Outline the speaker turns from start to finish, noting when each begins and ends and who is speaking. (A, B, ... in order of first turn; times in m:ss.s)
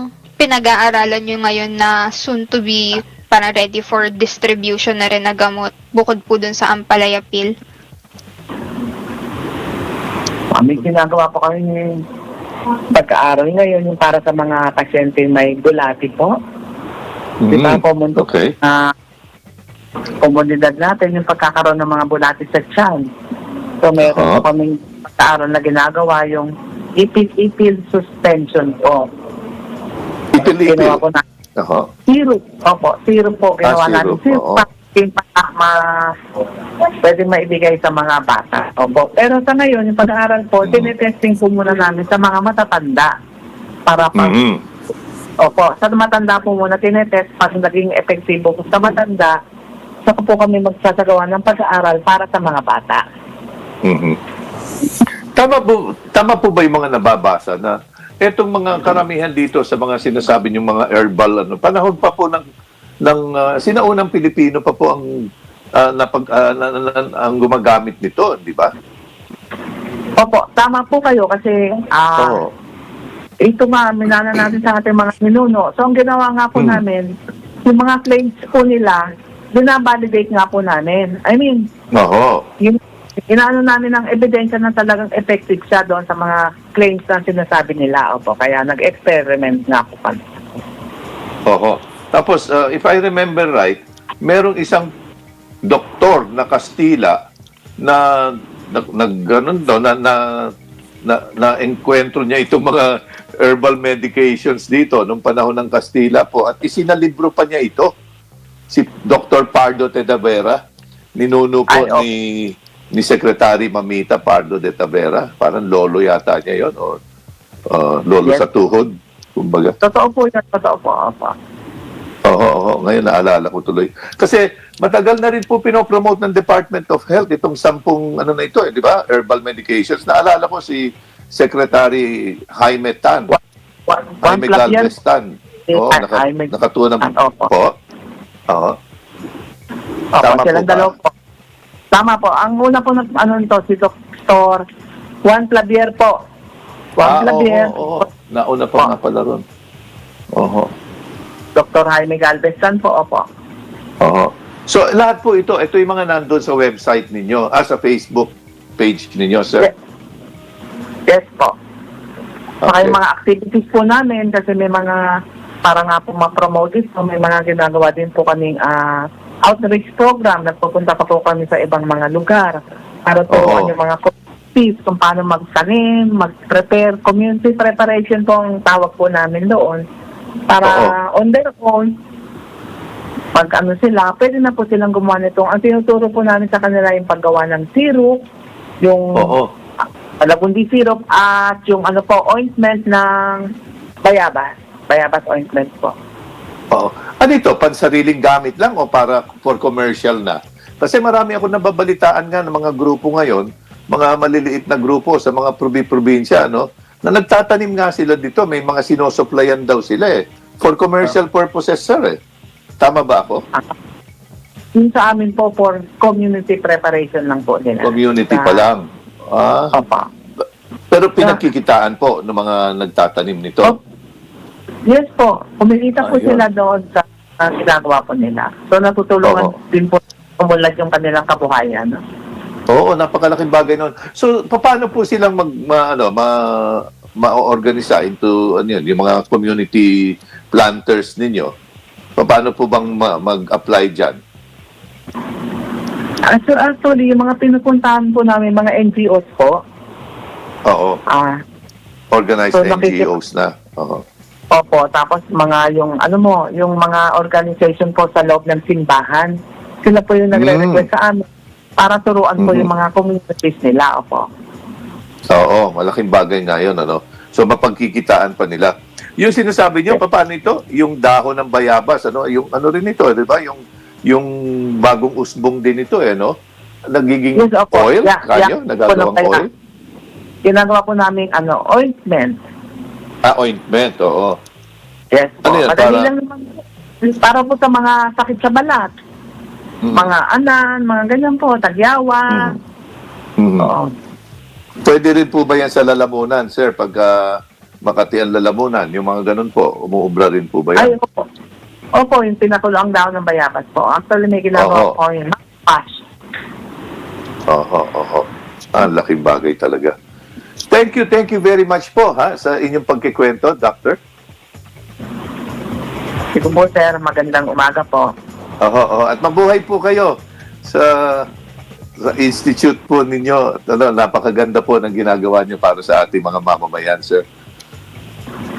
0:00.4-0:07.5 A
0:10.5-0:12.0 B
0:12.9-0:16.3 B
0:17.4-0:18.5 C
0:17.5-0:18.9 B
0:20.2-0:23.0 B
0:23.8-0:29.1 B
0:24.0-0:24.4 C
0:30.3-0:31.0 C
0:30.6-0:31.2 B
0:31.6-0:31.9 C
0:32.1-0:36.1 B
0:33.6-0:34.7 C
0:37.0-0:43.1 B
0:40.6-0:40.9 C
0:43.9-0:44.3 B
0:44.1-0:44.6 C
0:45.4-0:49.4 B
0:50.0-0:53.0 B
0:53.8-0:54.2 C
0:55.3-1:02.4 C
1:03.0-1:05.1 C
1:05.8-1:08.7 C
1:10.2-1:12.4 B
1:12.2-1:12.5 C
1:13.4-1:17.1 B
1:16.6-1:16.8 C
1:17.6-1:21.7 B
1:21.9-1:22.4 C
1:22.6-1:30.6 B
1:31.4-1:34.9 C
1:35.7-1:37.2 C
1:37.8-1:40.5 C
1:41.0-1:47.9 C
1:48.7-1:50.6 C
1:51.2-1:57.0 C
1:51.7-1:52.0 B
1:57.7-1:59.7 C
1:59.8-2:01.4 B
2:02.2-2:13.3 C
2:13.3-2:14.9 B
2:14.2-2:17.7 C
2:15.7-2:17.5 B
2:18.5-2:18.8 C
2:20.1-2:21.1 B
2:20.2-2:20.9 C
2:21.9-2:24.6 B
2:25.2-2:26.2 B
2:27.0-2:29.4 C
2:27.0-2:28.0 B
2:30.3-2:30.7 C
2:31.5-2:33.2 B
2:34.0-2:39.7 C
2:41.1-2:41.6 B
2:42.6-2:43.0 C
2:42.6-2:45.0 B
2:45.6-2:59.8 B
2:53.3-2:53.7 C
3:00.5-3:01.9 B
3:00.6-3:00.9 C
3:03.3-3:08.2 B
3:08.8-3:09.4 B
3:09.2-3:09.5 C
3:10.2-3:13.5 B
3:14.0-3:15.9 B
3:16.7-3:32.2 C
3:32.8-3:33.4 C
3:34.8-3:38.6 B
3:37.8-3:39.7 C
3:39.7-3:40.1 B
3:40.9-3:43.8 C
3:44.9-3:52.0 B
3:46.0-3:46.4 C
3:49.2-3:49.5 C
3:52.7-4:01.5 C
4:02.2-4:04.2 C
4:06.3-4:09.6 B
4:10.7-4:11.0 C
4:11.1-4:11.4 B
4:12.1-4:14.0 C
4:12.5-4:13.1 B
4:14.5-4:24.3 B
4:20.3-4:20.8 C
4:22.4-4:22.7 C
4:25.3-4:36.3 C
4:36.9-4:39.5 C
4:37.4-4:39.5 B
4:40.4-4:42.4 B
4:43.2-4:44.4 C
4:45.1-4:48.9 B
4:45.4-4:46.1 C
4:49.8-4:50.1 C
4:49.9-4:52.5 B
4:52.3-4:52.6 C
4:53.4-4:53.7 C
4:53.6-4:53.9 B
4:54.8-5:00.9 C
5:00.8-5:01.2 B
5:02.0-5:06.0 B
5:04.5-5:05.0 C
5:07.5-5:09.9 C
5:10.7-5:14.0 C
5:16.3-5:18.1 B
5:18.6-5:21.3 C
5:22.0-5:27.2 C